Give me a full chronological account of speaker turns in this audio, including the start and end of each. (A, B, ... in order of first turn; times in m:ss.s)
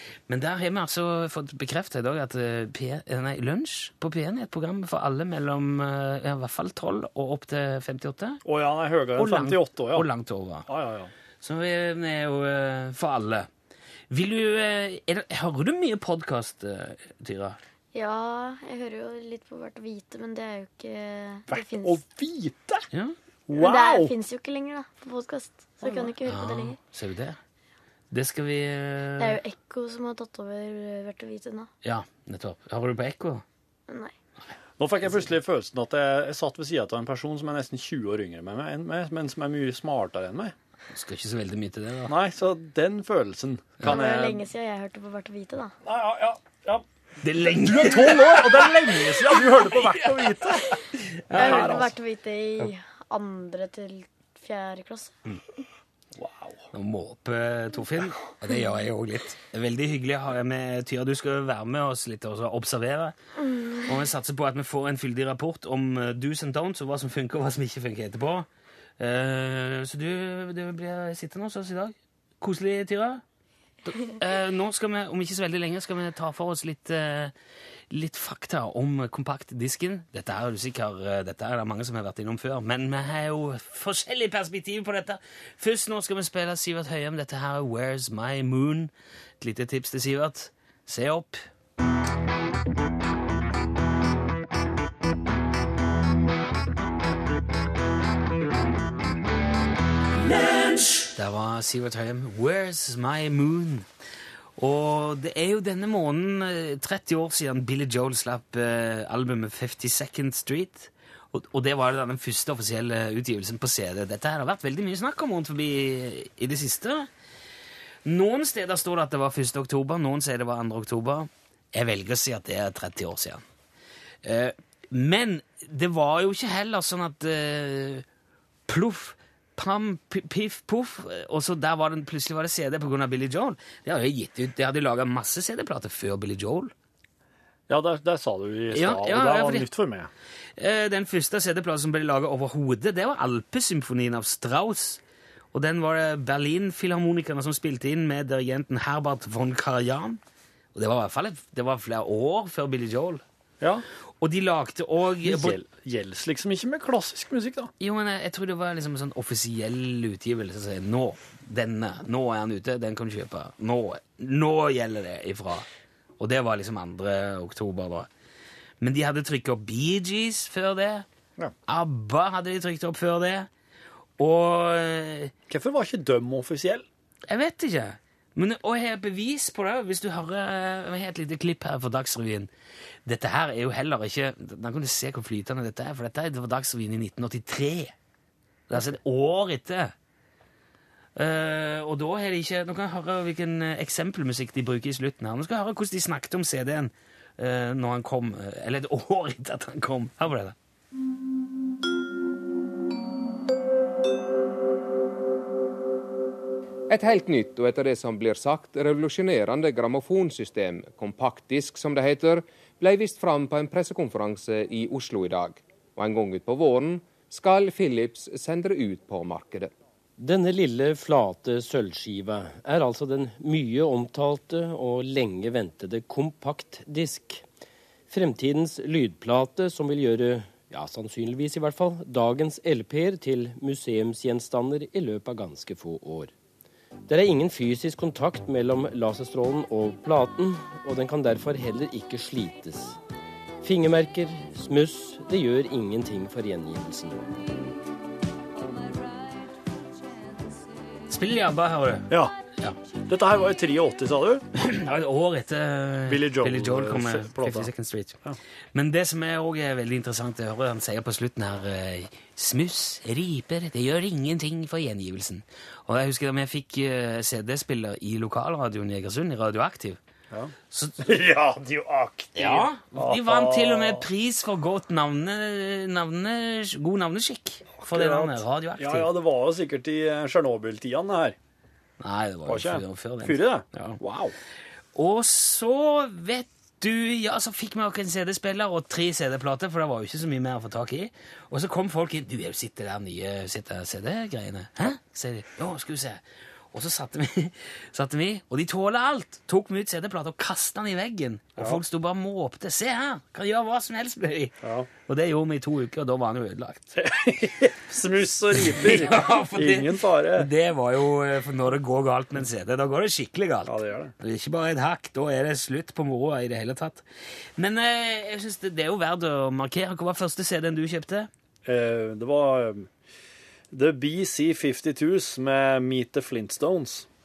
0:00.3-0:08.4 A
0:08.4-0:10.1 B
0:09.2-0:10.7 A
0:10.7-0:11.1 B
0:11.4-0:13.5 A
0:14.1-0:17.6 A
0:17.9-0:22.0 C
0:21.5-0:22.8 B
0:23.5-0:24.1 B
0:23.6-0:26.8 C
0:26.3-0:27.4 A
0:28.1-0:29.4 A
0:29.2-0:31.7 C
0:31.8-0:33.4 A
0:34.8-0:40.5 B
0:40.9-0:42.2 A
0:42.1-0:44.5 B
0:43.8-0:45.7 C
0:45.8-0:46.8 B
0:47.2-0:51.9 A
0:47.4-0:50.7 B
0:51.3-0:51.9 B
0:51.3-0:55.2 C
0:56.2-0:56.6 B
0:56.7-1:03.2 A
1:03.8-1:08.5 A
1:09.0-1:13.2 A
1:13.8-1:17.3 A
1:17.9-1:31.4 A
1:41.2-1:43.9 A
1:44.6-1:57.1 A
1:58.0-2:03.4 A
2:04.2-2:08.0 A
2:08.7-2:16.7 A
2:17.7-2:20.1 B
2:18.7-2:19.7 A
2:20.6-2:25.0 A
2:25.5-2:30.2 A
2:30.8-2:33.2 A
2:33.6-2:33.8 B
2:34.2-2:35.6 A
2:35.2-2:37.7 B
2:37.8-2:45.7 A
2:46.2-2:48.1 A
2:48.8-2:51.1 A
2:51.7-2:53.5 A
2:54.2-2:55.3 A
2:55.5-2:56.8 B
2:57.3-3:02.5 A
3:03.1-3:07.9 A
3:08.7-3:09.9 A
3:11.2-3:20.6 A
3:26.9-3:39.7 D
3:40.2-3:47.4 E
3:48.1-3:56.3 E
3:57.1-4:03.0 E
4:03.6-4:07.3 E
4:11.1-4:12.8 A
4:13.1-4:14.4 B
4:14.6-4:18.2 A
4:16.1-4:17.7 B
4:18.7-4:30.0 A
4:30.3-4:34.1 B
4:30.7-4:31.1 A
4:32.4-4:39.1 A
4:37.8-4:41.4 B
4:42.0-4:44.0 A
4:42.5-4:44.4 B
4:45.0-5:07.0 A
5:04.6-5:04.9 B
5:07.0-5:10.5 B
5:08.6-5:17.0 A
5:13.7-5:14.1 B
5:17.6-5:21.3 A
5:21.6-5:22.9 B
5:23.7-5:27.1 B